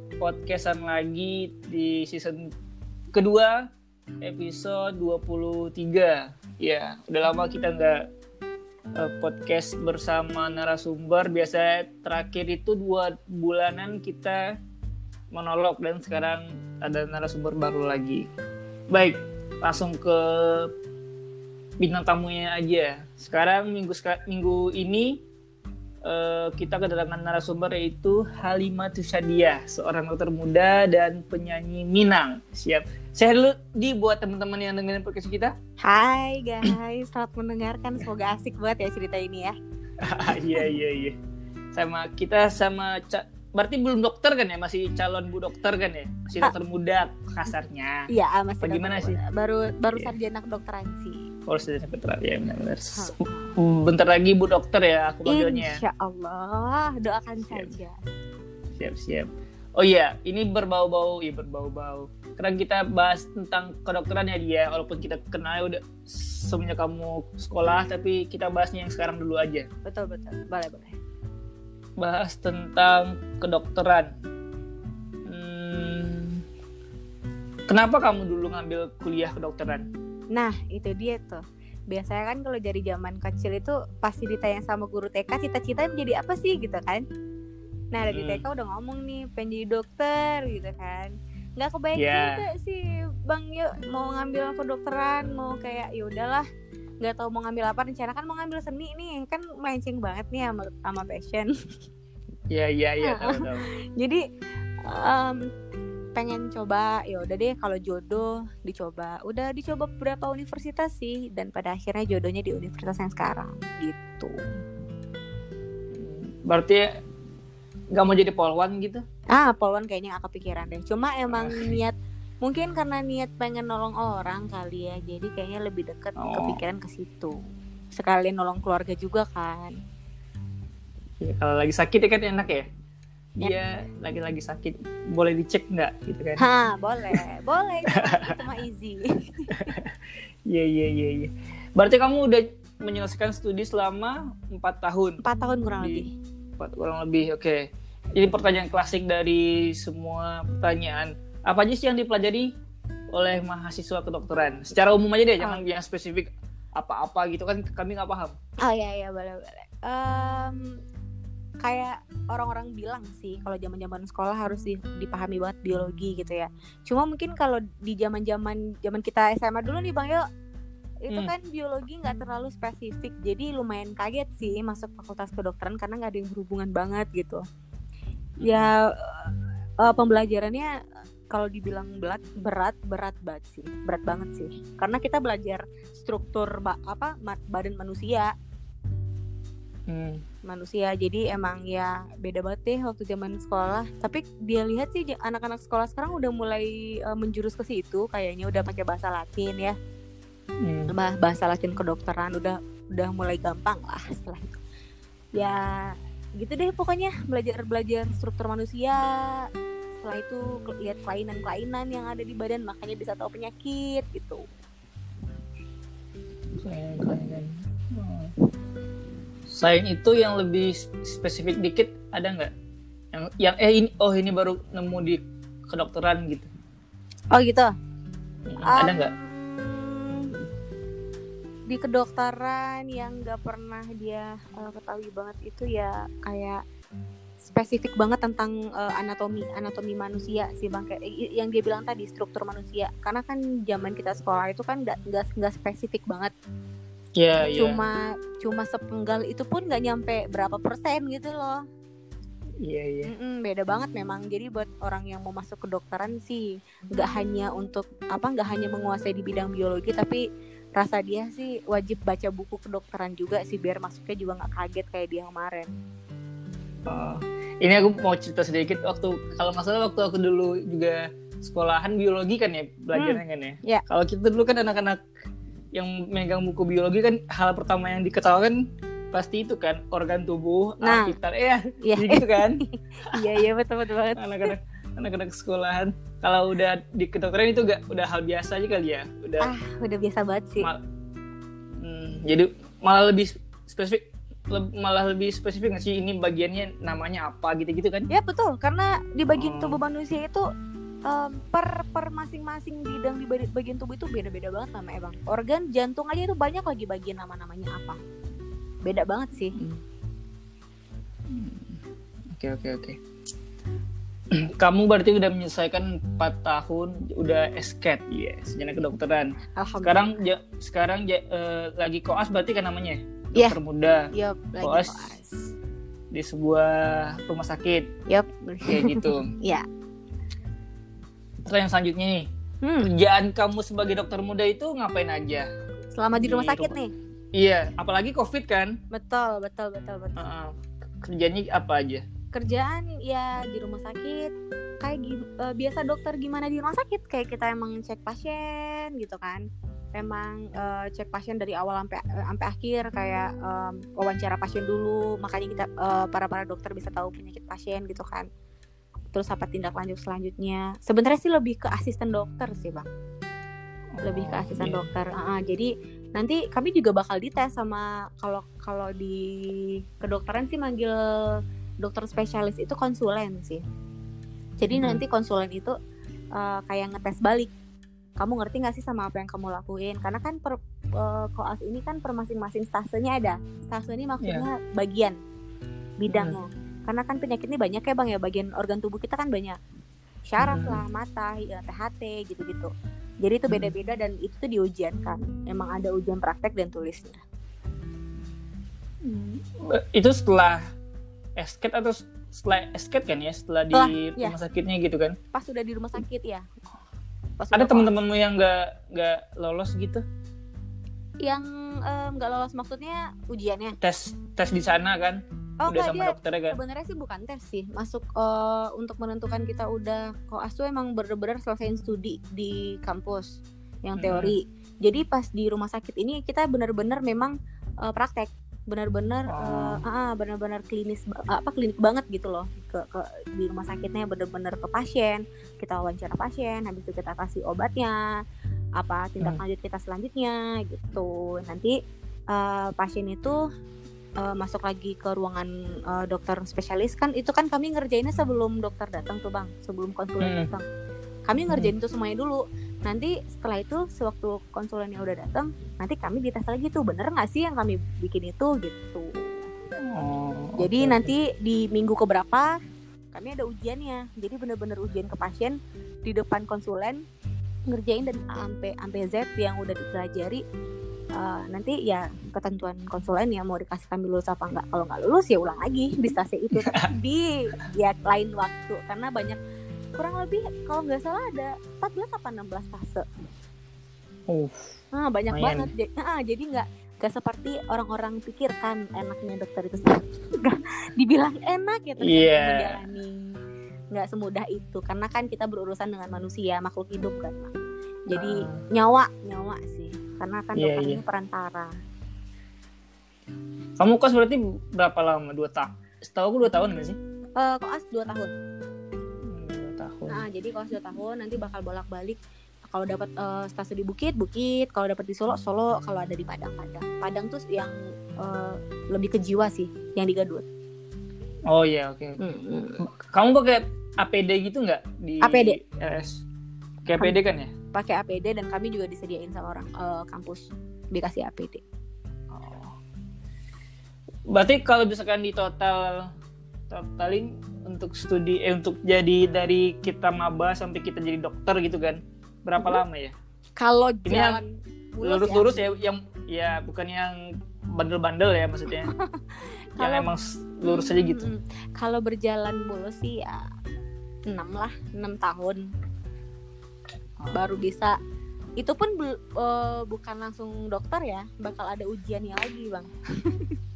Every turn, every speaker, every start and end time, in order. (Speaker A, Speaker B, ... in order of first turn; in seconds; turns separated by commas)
Speaker A: 0.2-2.5, Speaker A: 3.1-3.7, Speaker A: 4.2-8.1, Speaker A: 8.9-14.6, Speaker A: 15.3-18.3, Speaker A: 18.9-20.7, Speaker A: 21.8-25.2, Speaker A: 26.0-35.5, Speaker B: 35.8-39.5, Speaker A: 40.0-41.1, Speaker A: 41.7-48.1, Speaker B: 48.1-51.2, Speaker A: 48.6-49.2, Speaker A: 51.5-55.8, Speaker B: 53.0-53.5, Speaker B: 55.2-57.9, Speaker A: 58.8-69.7, Speaker B: 69.8-70.9, Speaker A: 72.0-74.1, Speaker A: 75.2-76.4, Speaker A: 77.7-79.9, Speaker B: 80.3-87.0, Speaker B: 87.9-96.5, Speaker A: 88.1-88.4, Speaker A: 92.0-92.4, Speaker B: 97.0-101.5, Speaker A: 102.5-103.7, Speaker B: 103.0-104.2, Speaker B: 104.8-105.4, Speaker B: 106.1-114.4, Speaker A: 115.9-116.8, Speaker A: 117.9-119.0, Speaker B: 119.3-127.3, Speaker A: 121.3-121.8, Speaker A: 126.2-126.6, Speaker B: 128.0-129.7, Speaker A: 131.2-132.7, Speaker A: 133.4-136.4, Speaker B: 136.4-139.8, Speaker A: 137.9-138.4, Speaker A: 139.5-139.9, Speaker A: 140.5-145.2, Speaker B: 145.2-146.1, Speaker A: 145.8-146.1, Speaker A: 146.6-152.5, Speaker A: 153.1-158.3, Speaker B: 158.6-160.8, Speaker B: 161.6-170.2, Speaker B: 171.0-177.4, Speaker A: 178.4-178.7, Speaker B: 178.4-180.7, Speaker B: 181.3-188.3, Speaker A: 189.9-190.2, Speaker B: 190.4-199.7, Speaker A: 200.6-200.9, Speaker B: 200.9-204.6, Speaker B: 205.3-214.4, Speaker A: 216.6-218.3, Speaker A: 219.5-222.5, Speaker A: 223.1-226.5, Speaker B: 227.3-227.7, Speaker A: 228.5-229.1, Speaker B: 228.6-230.3, Speaker B: 231.7-236.6, Speaker B: 237.4-246.3, Speaker A: 247.2-247.8, Speaker B: 247.5-251.6, Speaker A: 252.6-253.1, Speaker B: 253.1-260.2, Speaker B: 260.8-265.7, Speaker A: 266.9-275.0, Speaker B: 272.9-273.8, Speaker A: 275.7-278.6, Speaker A: 279.1-283.4, Speaker B: 280.8-281.1, Speaker B: 281.8-284.5, Speaker A: 284.1-289.5, Speaker B: 289.4-290.7, Speaker A: 291.7-298.1, Speaker B: 298.1-300.4, Speaker A: 299.3-299.8, Speaker B: 301.1-308.0, Speaker B: 308.8-309.6, Speaker A: 309.6-309.8, Speaker A: 311.3-311.8, Speaker A: 312.3-313.0, Speaker A: 314.3-324.1, Speaker B: 319.6-320.1, Speaker B: 324.1-325.4, Speaker A: 324.6-325.1, Speaker A: 326.1-327.9, Speaker B: 328.1-329.6, Speaker A: 328.6-329.3, Speaker A: 331.4-332.3, Speaker B: 332.6-332.9, Speaker A: 332.8-335.5, Speaker B: 335.9-336.9, Speaker A: 336.2-336.8, Speaker A: 337.3-338.8, Speaker B: 338.9-340.2, Speaker A: 340.1-342.0, Speaker B: 342.3-358.3, Speaker B: 359.1-362.9, Speaker A: 363.9-364.9, Speaker B: 364.0-373.6, Speaker B: 374.6-375.7, Speaker A: 374.7-375.0, Speaker B: 376.4-377.5, Speaker B: 378.2-385.2, Speaker B: 386.0-389.6, Speaker A: 386.1-386.4, Speaker B: 390.3-397.2, Speaker A: 390.4-390.8, Speaker A: 399.0-400.6, Speaker A: 401.4-405.2, Speaker B: 403.7-404.4, Speaker B: 405.3-406.4, Speaker B: 407.4-407.9, Speaker A: 407.5-410.0, Speaker B: 411.2-413.8, Speaker A: 413.8-416.6, Speaker B: 415.6-438.0, Speaker A: 424.0-424.3, Speaker A: 429.3-429.8, Speaker B: 438.8-441.7, Speaker B: 442.3-443.4, Speaker B: 444.2-450.6, Speaker A: 450.2-450.5, Speaker B: 451.2-459.3, Speaker A: 459.8-461.1, Speaker B: 460.6-462.5, Speaker B: 463.1-467.0, Speaker B: 467.7-470.4, Speaker B: 471.1-479.4, Speaker B: 479.9-483.1, Speaker A: 484.3-484.7, Speaker B: 484.9-493.2, Speaker A: 485.3-485.7, Speaker A: 492.0-492.8, Speaker B: 493.9-497.5, Speaker B: 498.1-501.7, Speaker A: 498.1-498.6, Speaker A: 500.6-501.0, Speaker A: 503.8-507.0, Speaker B: 507.4-508.3, Speaker A: 509.2-510.2, Speaker B: 510.1-520.4, Speaker A: 521.5-522.2, Speaker B: 522.2-522.8, Speaker A: 522.8-526.2, Speaker B: 525.2-525.6, Speaker A: 526.8-527.5, Speaker B: 527.7-531.6, Speaker A: 532.3-532.8, Speaker A: 534.3-536.1, Speaker A: 536.7-543.1, Speaker B: 543.6-545.6, Speaker A: 544.0-544.4, Speaker A: 545.0-547.2, Speaker A: 547.7-548.9, Speaker B: 548.8-550.1, Speaker A: 549.8-551.3, Speaker B: 550.6-553.5, Speaker B: 554.3-555.6, Speaker A: 557.2-557.5, Speaker B: 557.3-558.0, Speaker B: 558.6-563.5